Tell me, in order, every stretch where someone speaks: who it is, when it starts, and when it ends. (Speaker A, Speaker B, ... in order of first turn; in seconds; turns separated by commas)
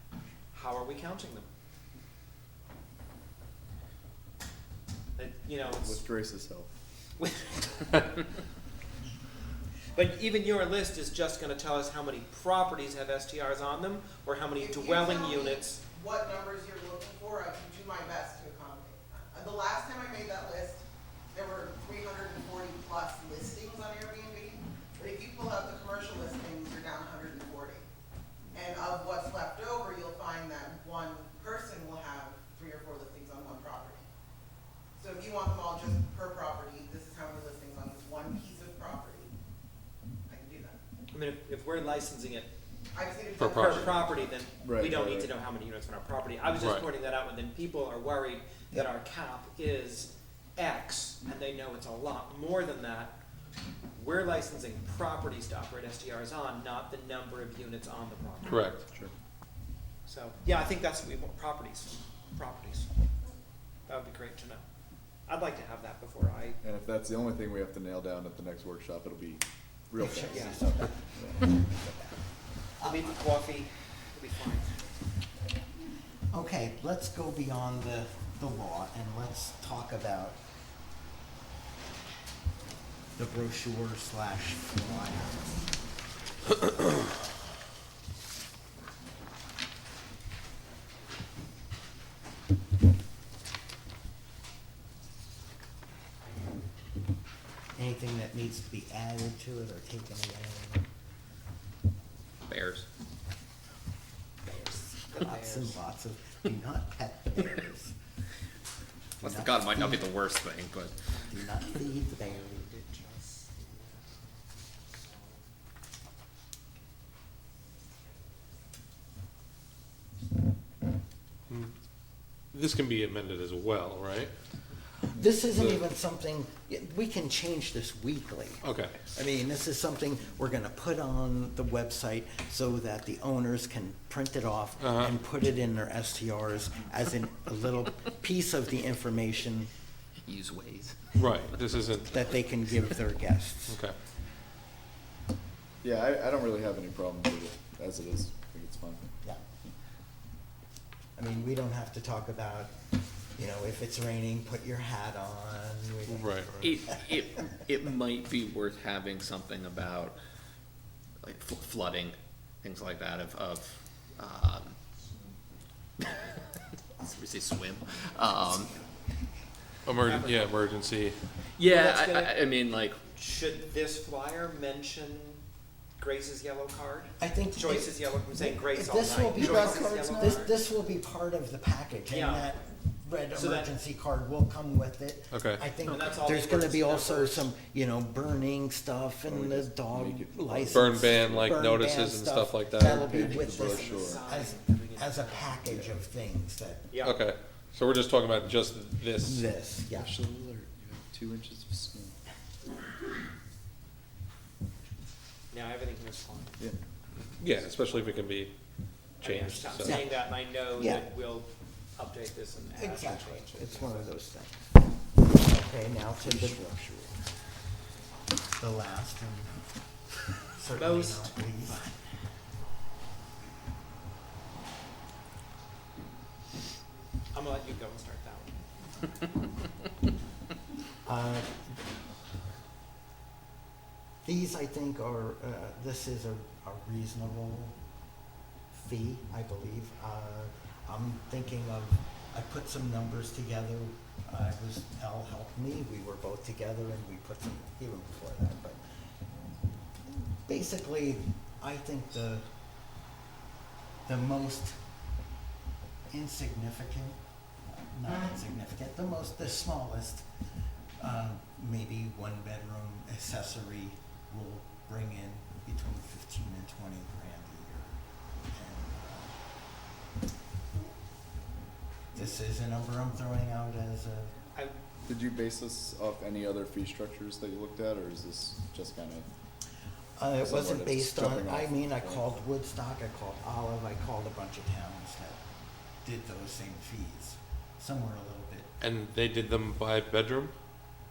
Speaker A: 0.5-1.5, Speaker A: 5.2-6.0, Speaker B: 5.8-6.7, Speaker A: 7.2-8.2, Speaker A: 9.9-15.8, Speaker C: 14.6-27.9, Speaker C: 28.5-34.1, Speaker C: 35.0-39.3, Speaker C: 40.3-40.8, Speaker A: 41.1-42.5, Speaker C: 42.9-44.2, Speaker D: 43.4-43.9, Speaker A: 43.4-53.2, Speaker B: 44.6-45.3, Speaker D: 46.5-46.8, Speaker A: 54.0-58.8, Speaker D: 58.5-58.8, Speaker A: 60.1-62.9, Speaker A: 63.9-64.6, Speaker A: 65.3-66.6, Speaker B: 66.6-71.5, Speaker E: 70.0-72.2, Speaker A: 70.3-70.6, Speaker E: 72.8-73.2, Speaker A: 72.8-74.8, Speaker E: 76.3-80.4, Speaker E: 83.2-85.7, Speaker E: 86.6-87.1, Speaker E: 97.8-100.9, Speaker F: 102.5-102.9, Speaker E: 104.4-108.0, Speaker A: 105.1-105.8, Speaker E: 109.2-110.1, Speaker F: 109.2-111.0, Speaker E: 111.3-112.7, Speaker A: 112.1-115.4, Speaker D: 122.5-124.3, Speaker E: 125.2-139.7, Speaker D: 125.5-125.8, Speaker D: 128.6-129.0, Speaker D: 134.8-135.1, Speaker F: 140.2-141.2, Speaker D: 141.2-142.1, Speaker E: 142.1-143.8, Speaker D: 143.7-143.9, Speaker B: 145.8-149.1, Speaker E: 151.2-152.8, Speaker E: 153.4-156.4, Speaker D: 156.1-156.7, Speaker F: 156.6-160.2, Speaker F: 161.2-164.8, Speaker F: 167.0-168.7, Speaker D: 169.9-171.2, Speaker A: 170.1-170.7, Speaker F: 171.6-173.0, Speaker A: 171.7-172.4, Speaker A: 173.0-175.4, Speaker A: 176.0-180.6, Speaker E: 177.2-196.9, Speaker B: 179.4-180.4, Speaker A: 182.1-182.5, Speaker A: 183.3-183.8, Speaker D: 185.3-185.6, Speaker A: 185.9-187.5, Speaker B: 189.3-191.5, Speaker D: 190.7-193.1, Speaker B: 192.8-194.2, Speaker A: 193.0-195.6, Speaker B: 195.7-195.9, Speaker A: 196.9-197.2, Speaker D: 197.0-199.5, Speaker E: 199.2-200.2, Speaker B: 199.9-202.2, Speaker A: 205.5-206.6, Speaker D: 207.4-208.5, Speaker A: 207.8-208.3, Speaker D: 209.2-210.0, Speaker A: 209.2-214.1, Speaker E: 209.8-211.1, Speaker E: 212.8-217.2, Speaker B: 216.2-216.6, Speaker E: 218.6-219.5, Speaker E: 220.6-222.0, Speaker A: 220.8-221.4, Speaker A: 227.3-228.6, Speaker E: 231.1-231.5, Speaker E: 234.2-237.8, Speaker E: 238.7-248.8, Speaker E: 250.4-252.5, Speaker E: 254.1-254.8, Speaker E: 256.1-260.3, Speaker E: 261.0-268.0, Speaker E: 268.5-269.4, Speaker E: 272.1-274.4, Speaker B: 275.1-279.3, Speaker E: 280.2-285.4, Speaker B: 280.4-282.4, Speaker E: 286.0-288.7, Speaker D: 288.8-290.5